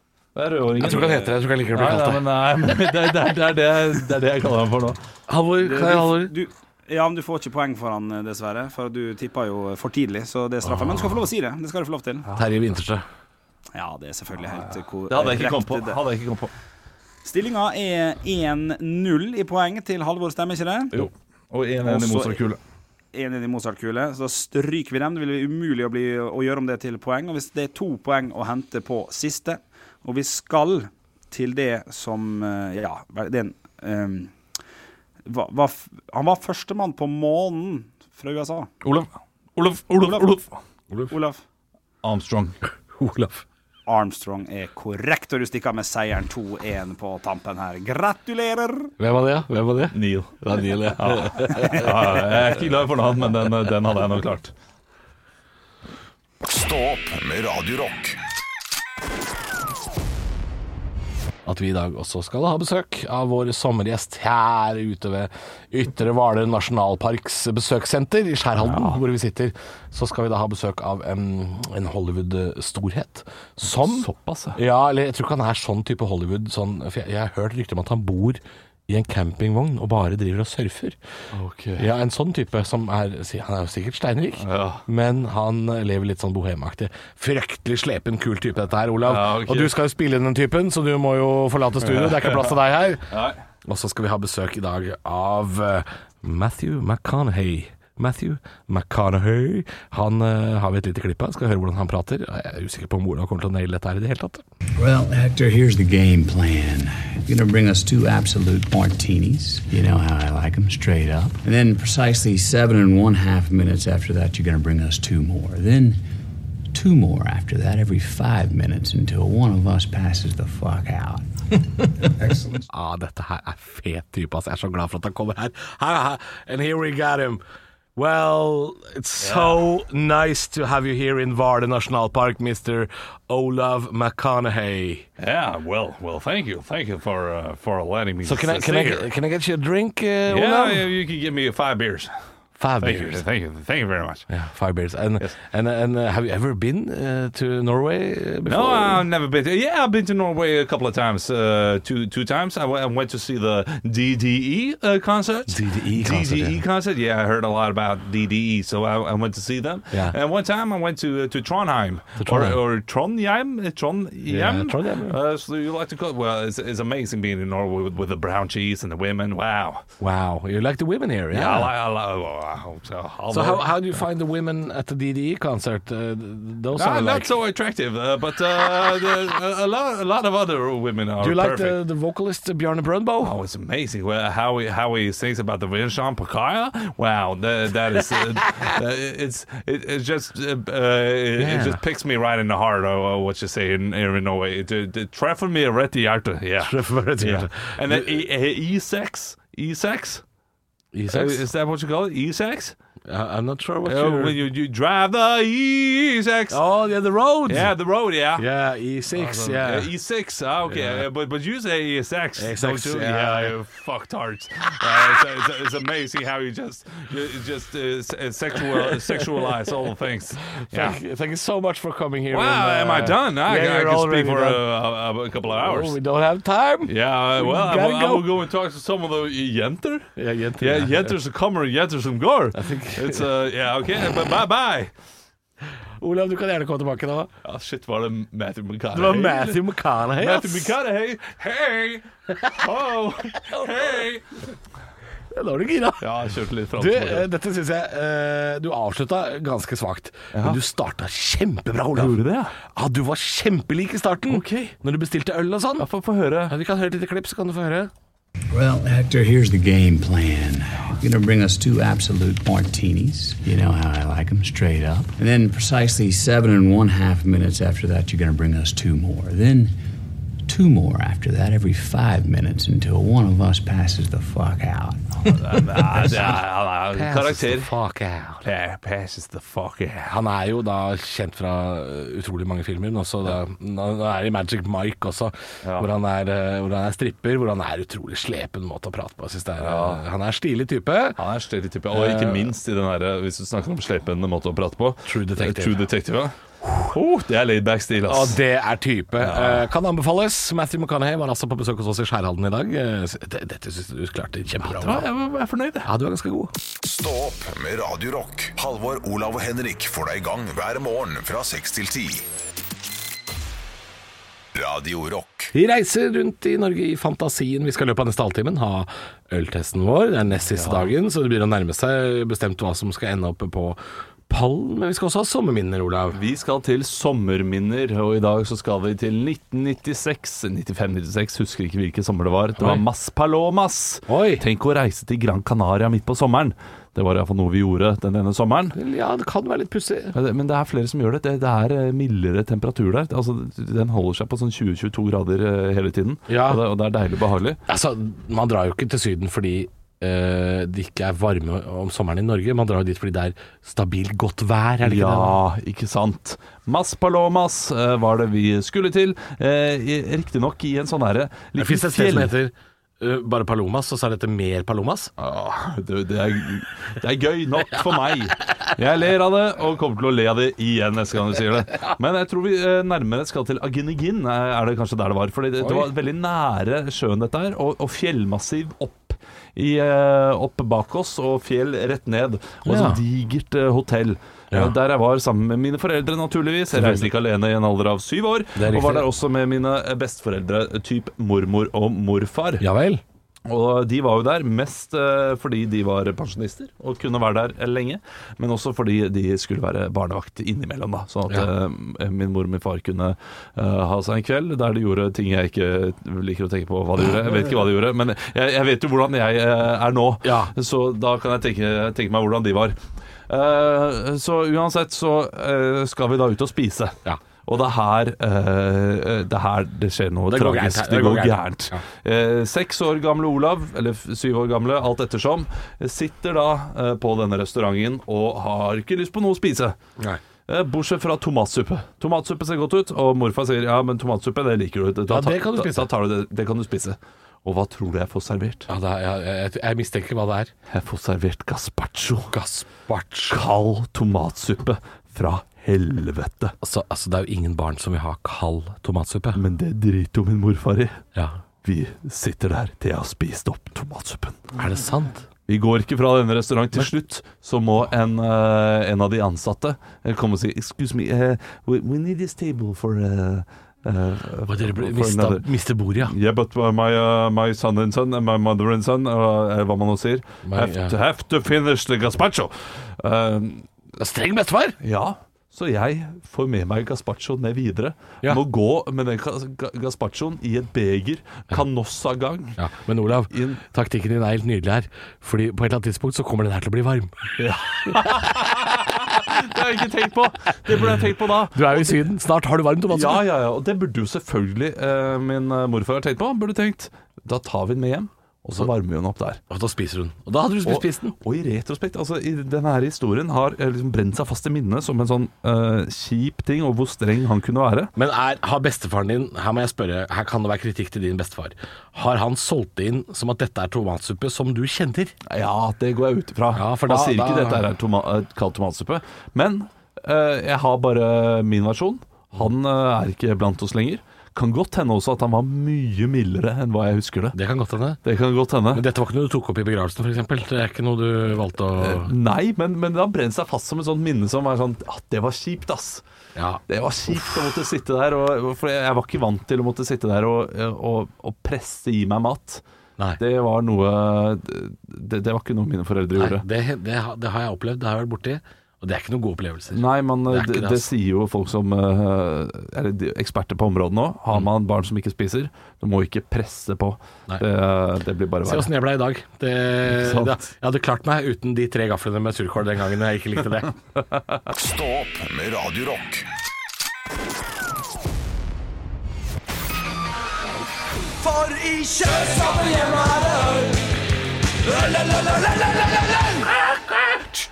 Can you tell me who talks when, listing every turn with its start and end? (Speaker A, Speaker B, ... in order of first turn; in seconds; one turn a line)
Speaker A: 0.3-5.0
Speaker B: 0.8-2.3
Speaker B: 5.3-6.3
Speaker C: 5.6-12.3
Speaker B: 10.6-11.1
Speaker B: 12.4-13.0
Speaker C: 13.7-16.0
Speaker A: 15.1-16.5
Speaker C: 17.2-20.9
Speaker A: 20.9-22.6
Speaker C: 21.8-22.4
Speaker C: 23.1-34.3
Speaker C: 35.3-38.7
Speaker A: 38.8-40.6
Speaker C: 40.0-40.4
Speaker C: 41.1-41.4
Speaker A: 42.0-42.6
Speaker B: 43.0-43.4
Speaker C: 43.9-48.9
Speaker B: 49.0-52.1
Speaker A: 49.9-54.5
Speaker D: 56.4-58.2
Speaker B: 61.5-81.0
Speaker A: 68.5-69.0
Speaker A: 73.6-74.6
Speaker A: 81.3-82.0
Speaker B: 81.8-93.0
Speaker A: 84.4-84.8
Speaker A: 89.0-89.7
Speaker A: 91.8-92.6
Speaker A: 93.1-93.4
Speaker B: 93.7-104.4
Speaker E: 104.8-116.0
Speaker E: 116.7-121.2
Speaker E: 121.8-122.6
Speaker B: 122.7-127.4
Speaker B: 128.0-135.1
Speaker A: 129.2-129.7
Speaker A: 135.2-139.1
Speaker B: 138.2-140.9
Speaker A: 140.3-142.1
Speaker B: 142.6-143.2
Speaker A: 142.8-144.3
Speaker B: 144.3-149.1
Speaker A: 148.5-169.9
Speaker B: 155.5-156.6
Speaker B: 162.2-162.6
Speaker B: 164.3-165.2
Speaker B: 170.0-171.7
Speaker A: 171.3-174.0
Speaker B: 173.3-177.3
Speaker A: 176.7-181.8
Speaker B: 181.2-183.3
Speaker A: 183.2-200.2
Speaker B: 188.3-188.6
Speaker B: 191.4-191.8
Speaker B: 196.6-198.0
Speaker B: 200.9-201.4
Speaker A: 201.1-202.8
Speaker B: 203.1-204.4
Speaker A: 203.8-206.6
Speaker B: 206.5-207.8
Speaker A: 207.5-208.5
Speaker B: 208.4-209.9
Speaker A: 209.1-221.0
Speaker B: 210.7-211.1
Speaker B: 212.4-213.6
Speaker B: 218.6-219.6
Speaker B: 220.6-224.7
Speaker A: 222.3-226.0
Speaker B: 225.4-228.3
Speaker A: 226.8-234.9
Speaker B: 230.2-231.2
Speaker B: 232.5-233.3
Speaker B: 236.0-237.3
Speaker A: 237.4-239.6
Speaker B: 238.9-240.8
Speaker A: 240.1-244.2
Speaker B: 242.3-242.7
Speaker B: 243.3-243.7
Speaker B: 245.3-246.1
Speaker A: 246.0-247.3
Speaker B: 246.7-252.2
Speaker A: 250.3-250.6
Speaker A: 251.9-252.6
Speaker B: 252.7-255.9
Speaker A: 254.3-254.8
Speaker A: 255.8-256.5
Speaker B: 256.5-257.9
Speaker E: 258.5-269.8
Speaker E: 270.5-276.0
Speaker A: 275.2-277.7
Speaker B: 276.9-278.4
Speaker A: 278.4-280.2
Speaker B: 280.1-291.2
Speaker A: 285.6-285.9
Speaker A: 289.6-290.0
Speaker A: 291.2-298.4
Speaker B: 291.9-292.5
Speaker B: 295.1-295.9
Speaker B: 298.1-305.1
Speaker A: 299.2-299.7
Speaker A: 304.6-305.9
Speaker B: 305.9-306.5
Speaker D: 306.8-312.2
Speaker D: 314.5-315.5
Speaker B: 315.5-326.2
Speaker A: 320.5-320.9
Speaker A: 326.1-338.8
Speaker B: 332.6-332.9
Speaker B: 334.1-334.4
Speaker B: 338.7-340.2
Speaker A: 340.1-347.6
Speaker B: 346.3-346.6
Speaker B: 347.7-355.4
Speaker A: 354.8-362.4
Speaker B: 361.6-365.1
Speaker A: 365.2-392.6
Speaker B: 375.6-375.9
Speaker B: 382.7-383.0
Speaker B: 386.7-387.1
Speaker B: 388.6-389.1
Speaker B: 392.6-393.0
Speaker A: 393.5-412.8
Speaker B: 410.2-410.5
Speaker A: 413.3-429.8
Speaker B: 420.3-421.8
Speaker A: 430.5-438.7
Speaker B: 435.1-435.9
Speaker B: 438.7-440.5
Speaker A: 440.7-442.4
Speaker B: 442.3-443.4
Speaker A: 443.3-446.5
Speaker B: 446.6-449.4
Speaker A: 449.3-451.0
Speaker A: 451.6-454.4
Speaker B: 454.6-455.2
Speaker A: 455.5-473.7
Speaker B: 464.5-466.1
Speaker B: 470.4-471.0
Speaker B: 474.0-474.8
Speaker A: 474.8-482.6
Speaker B: 482.6-487.3
Speaker A: 483.1-483.6
Speaker A: 487.4-492.0
Speaker B: 487.9-488.4
Speaker B: 491.5-493.3
Speaker A: 492.9-499.4
Speaker B: 499.5-501.2
Speaker A: 500.6-507.9
Speaker B: 508.0-515.1
Speaker A: 515.2-527.4
Speaker B: 516.5-517.7
Speaker B: 527.3-528.0
Speaker A: 528.0-528.8
Speaker B: 528.7-532.1
Speaker A: 531.8-536.0
Speaker B: 536.4-537.4
Speaker A: 536.7-542.6
Speaker A: 543.2-546.5
Speaker B: 546.1-550.9
Speaker A: 549.7-558.7
Speaker B: 558.4-563.8
Speaker A: 559.9-560.4
Speaker D: 564.5-566.2
Speaker A: 571.2-573.8
Speaker A: 574.7-576.6